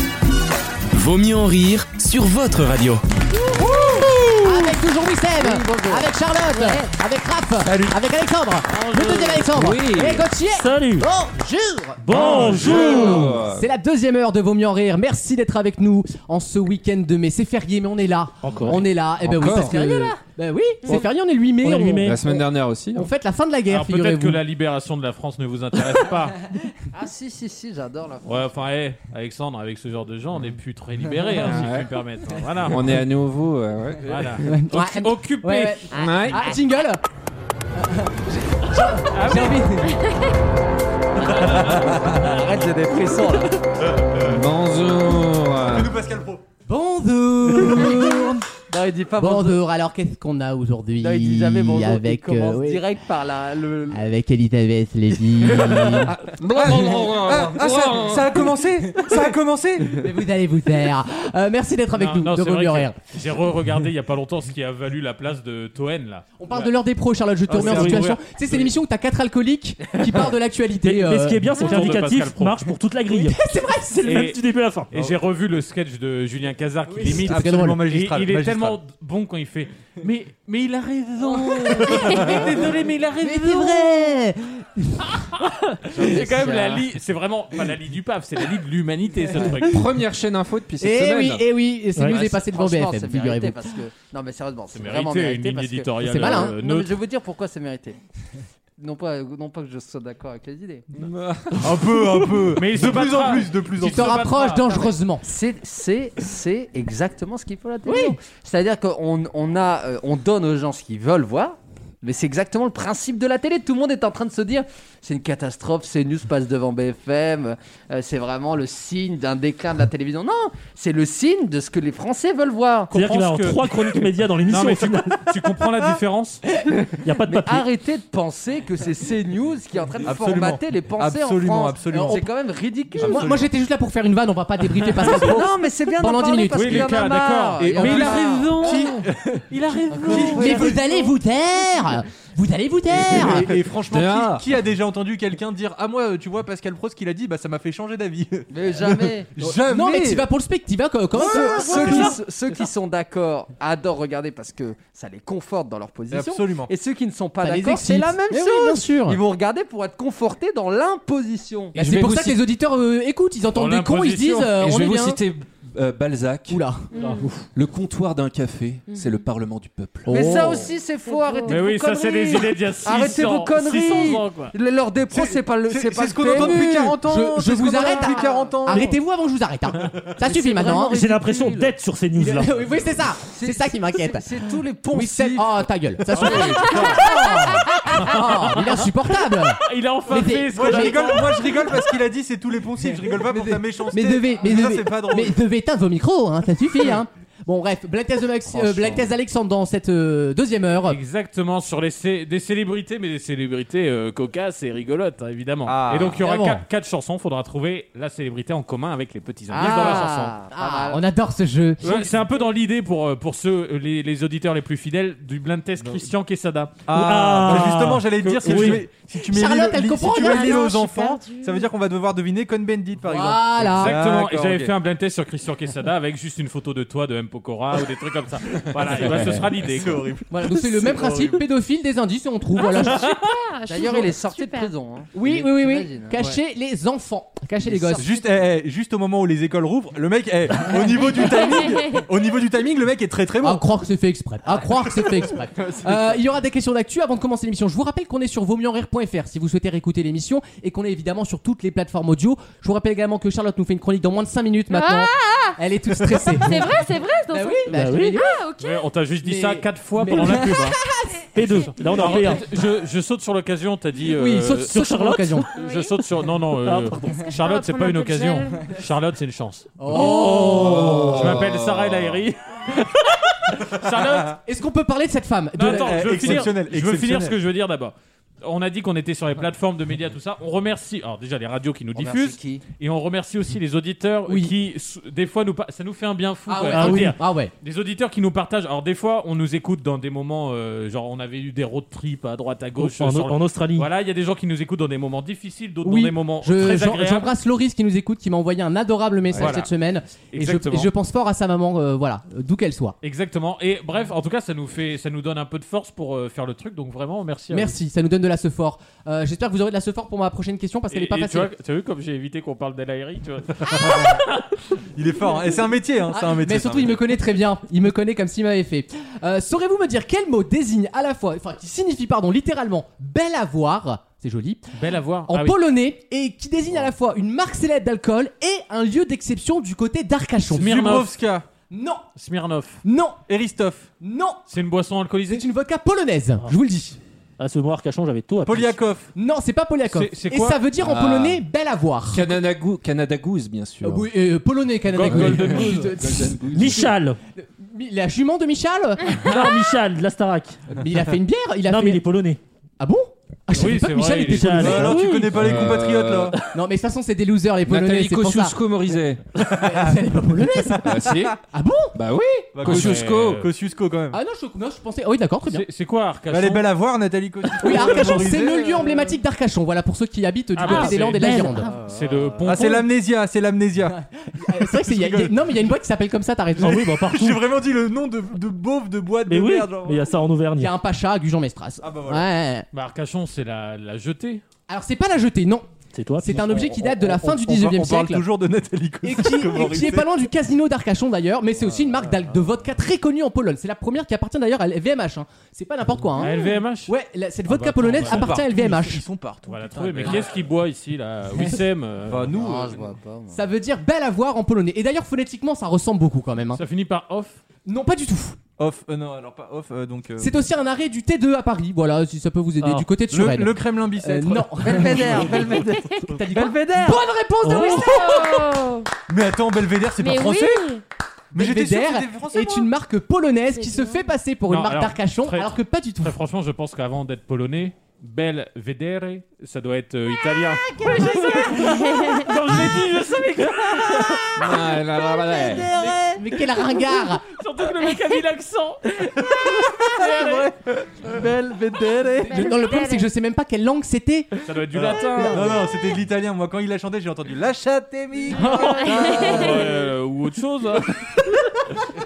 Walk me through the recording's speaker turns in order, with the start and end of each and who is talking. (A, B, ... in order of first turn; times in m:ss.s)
0:00.9-0:03.0 A
0:03.5-0:24.4 B
0:05.4-0:06.8 C
0:07.7-0:07.9 D
0:08.7-0:09.5 E
0:09.5-0:10.3 F
0:10.5-0:11.1 G
0:12.0-0:13.3 E
0:12.1-0:13.7 F
0:12.6-0:13.0 D
0:18.4-0:18.8 G
0:18.6-0:19.8 F
0:19.4-0:20.2 C
0:21.6-0:22.3 G
0:22.0-0:23.1 F
0:23.7-0:26.4 E
0:26.9-0:28.4 C
0:28.2-0:32.8 E
0:31.2-0:31.5 B
0:31.4-0:31.9 F
0:32.6-0:34.4 F
0:34.1-0:35.8 E
0:34.4-0:37.0 B
0:35.9-0:36.5 H
0:35.9-0:36.4 F
0:37.8-0:39.9 B
0:38.8-0:39.7 E
0:39.8-0:40.4 H
0:41.3-0:43.6 C
0:41.4-0:42.2 E
0:44.2-0:45.9 F
0:45.6-0:46.4 D
0:46.7-0:48.5 B
0:48.7-0:49.6 C
0:49.2-0:52.8 B
0:51.0-0:54.0 C
0:53.9-0:56.1 B
0:55.5-0:58.5 F
0:56.5-1:00.0 D
0:56.7-0:57.0 B
0:58.9-0:59.3 B
0:59.9-1:03.0 B
1:01.9-1:06.3 E
1:06.4-1:12.0 B
1:07.5-1:08.7 D
1:07.6-1:08.1 G
1:09.9-1:10.3 C
1:10.8-1:13.4 G
1:11.5-1:12.7 E
1:13.1-1:14.3 B
1:14.0-1:14.9 G
1:14.0-1:14.4 E
1:14.9-1:24.2 E
1:16.9-1:17.8 B
1:17.0-1:18.8 D
1:21.2-1:22.6 B
1:23.2-1:25.3 B
1:25.4-1:29.8 E
1:25.9-1:26.8 C
1:29.3-1:29.6 C
1:29.6-1:31.4 F
1:30.8-1:33.6 B
1:32.0-1:38.0 C
1:34.7-1:36.9 E
1:36.0-1:36.5 B
1:38.8-1:40.8 C
1:41.0-1:41.9 F
1:41.6-1:44.4 D
1:42.4-1:44.9 E
1:43.9-1:45.2 B
1:44.7-2:02.9 C
1:47.8-1:48.2 B
2:02.9-2:05.3 G
2:02.9-2:06.4 E
2:06.7-2:13.3 C
2:07.0-2:07.7 G
2:10.0-2:12.2 D
2:11.9-2:12.2 B
2:12.9-2:13.5 D
2:13.0-2:17.0 B
2:14.8-2:15.3 E
2:15.0-2:18.8 C
2:16.5-2:20.8 E
2:17.6-2:19.4 D
2:18.6-2:18.9 B
2:19.9-2:20.8 C
2:20.0-2:20.9 D
2:20.1-2:23.5 B
2:23.0-2:24.4 F
2:23.1-2:30.3 D
2:28.5-2:29.3 C
2:29.4-2:32.2 B
2:31.1-2:41.8 C
2:31.2-2:32.1 D
2:36.1-2:36.7 D
2:37.4-2:39.2 B
2:41.8-2:42.4 F
2:41.8-2:45.2 B
2:43.5-2:44.5 E
2:44.5-2:46.6 F
2:46.5-2:46.8 B
2:46.9-2:47.3 H
2:47.0-2:47.5 G
2:47.5-2:50.4 F
2:48.9-2:49.2 H
2:50.0-2:57.0 C
2:50.1-2:50.7 B
2:51.0-2:51.6 H
2:51.4-2:54.5 E
2:55.1-2:58.9 D
2:56.3-3:01.0 B
2:58.0-2:58.7 C
3:00.2-3:01.7 C
3:00.9-3:02.6 G
3:02.1-3:04.3 B
3:03.2-3:07.0 C
3:04.9-3:11.6 B
3:06.1-3:07.0 E
3:06.2-3:06.8 D
3:06.8-3:07.7 H
3:07.9-3:11.5 E
3:10.5-3:15.4 D
3:13.0-3:21.0 B
3:18.4-3:19.1 C
3:20.8-3:30.4 E
3:25.6-3:26.2 D
3:26.2-3:26.6 B
3:29.5-3:31.0 C
3:29.6-3:32.1 B
3:31.8-3:38.8 E
3:35.8-3:36.1 D
3:36.9-3:44.7 D
3:36.9-3:38.8 G
3:39.2-3:40.7 B
3:40.0-3:41.7 H
3:43.0-3:44.0 B
3:43.8-3:50.2 E
3:48.8-3:51.4 D
3:48.8-3:49.4 B
3:50.3-3:53.1 B
3:52.6-3:54.7 H
3:53.7-3:56.2 C
3:55.1-3:58.2 B
3:57.7-4:03.6 D
4:01.1-4:02.1 H
4:03.4-4:16.8 B
4:05.0-4:05.3 D
4:14.7-4:15.6 H
4:16.4-4:18.9 H
4:17.3-4:18.3 B
4:17.7-4:18.2 G
4:18.6-4:20.8 E
4:19.2-4:22.4 B
4:21.3-4:22.4 G
4:21.9-4:24.8 E
4:24.0-4:25.5 B
4:24.7-4:25.5 G
4:25.5-4:34.4 E
4:25.6-4:25.9 H
4:26.6-4:27.2 G
4:27.1-4:28.7 H
4:29.8-4:31.2 B
4:29.9-4:30.6 G
4:30.3-4:32.2 F
4:34.4-4:36.5 B
4:35.5-4:57.3 E
4:35.6-4:37.4 D
4:41.9-4:42.6 C
4:44.3-4:44.5 B
4:46.5-4:47.5 B
4:46.7-4:47.2 G
4:52.8-4:53.9 G
4:55.8-5:03.0 B
4:59.3-4:59.6 F
4:59.4-4:59.7 E
5:00.3-5:00.9 E
5:03.0-5:07.8 E
5:07.5-5:11.5 B
5:10.9-5:14.6 E
5:13.8-5:14.2 D
5:14.9-5:17.1 D
5:16.1-5:24.7 B
5:24.7-5:25.6 E
5:25.3-5:30.8 B
5:30.5-5:31.4 D
5:30.6-5:31.2 E
5:31.7-5:32.0 B
5:32.2-5:32.8 E
5:32.8-5:33.2 B
5:33.3-5:33.9 D
5:34.0-5:34.4 B
5:34.5-5:35.4 E
5:35.3-5:37.0 B
5:37.4-5:38.8 G
5:38.4-5:39.1 D
5:39.2-5:42.2 B
5:39.9-5:40.6 E
5:40.8-5:41.4 F
5:42.1-5:44.1 F
5:43.8-5:49.4 B
5:44.9-5:46.0 E
5:45.0-5:46.9 F
5:46.5-5:47.2 G
5:49.2-5:50.6 G
5:50.7-5:52.0 B
5:51.6-5:52.4 G
5:52.8-5:55.0 B
5:53.5-5:54.9 E
5:54.3-5:55.5 G
5:54.6-5:56.4 D
5:55.3-5:56.3 F
5:56.5-5:58.6 B
5:57.6-5:59.2 F
5:59.4-5:59.8 D
5:59.4-6:02.2 B
6:00.5-6:01.3 D
6:00.8-6:01.4 F
6:01.9-6:03.5 F
6:02.5-6:04.2 D
6:02.6-6:03.5 E
6:04.1-6:05.6 B
6:05.5-6:06.8 E
6:06.3-6:08.9 D
6:07.6-6:11.7 B
6:10.6-6:12.8 E
6:10.6-6:11.7 G
6:11.6-6:12.5 C
6:12.4-6:15.7 D
6:13.9-6:17.1 B
6:16.6-6:20.1 D
6:16.6-6:17.4 G
6:19.2-6:20.7 G
6:20.6-6:22.7 B
6:21.8-6:22.2 D
6:22.7-6:24.4 E
6:24.7-6:25.7 B
6:25.9-6:27.0 G
6:26.2-6:28.2 B
6:27.0-6:30.1 D
6:29.0-6:39.0 B
6:36.2-6:36.9 E
6:37.5-6:38.4 E
6:38.0-6:40.5 D
6:39.4-6:42.3 E
6:41.3-6:41.6 B
6:42.1-6:42.9 D
6:42.3-6:43.4 C
6:43.3-6:46.6 B
6:46.5-6:47.4 E
6:47.6-6:48.4 B
6:48.6-6:50.4 D
6:50.2-6:58.5 B
6:52.6-6:52.9 G
6:53.0-6:55.4 D
6:54.6-6:57.0 C
6:55.7-6:56.1 H
6:57.4-6:57.9 G
6:57.4-6:58.9 H
6:59.1-7:00.7 D
7:00.0-7:00.8 H
7:01.3-7:02.7 D
7:01.3-7:06.2 B
7:03.5-7:04.1 H
7:04.5-7:14.5 E
7:10.7-7:12.3 H
7:14.4-7:15.7 F
7:15.2-7:16.2 C
7:15.7-7:17.2 B
7:17.3-7:19.0 E
7:19.0-7:20.5 C
7:19.8-7:20.5 E
7:21.0-7:22.5 C
7:22.2-7:25.6 B
7:22.2-7:23.1 H
7:24.4-7:25.5 E
7:24.8-7:29.9 D
7:28.3-7:31.7 E
7:28.3-7:29.6 H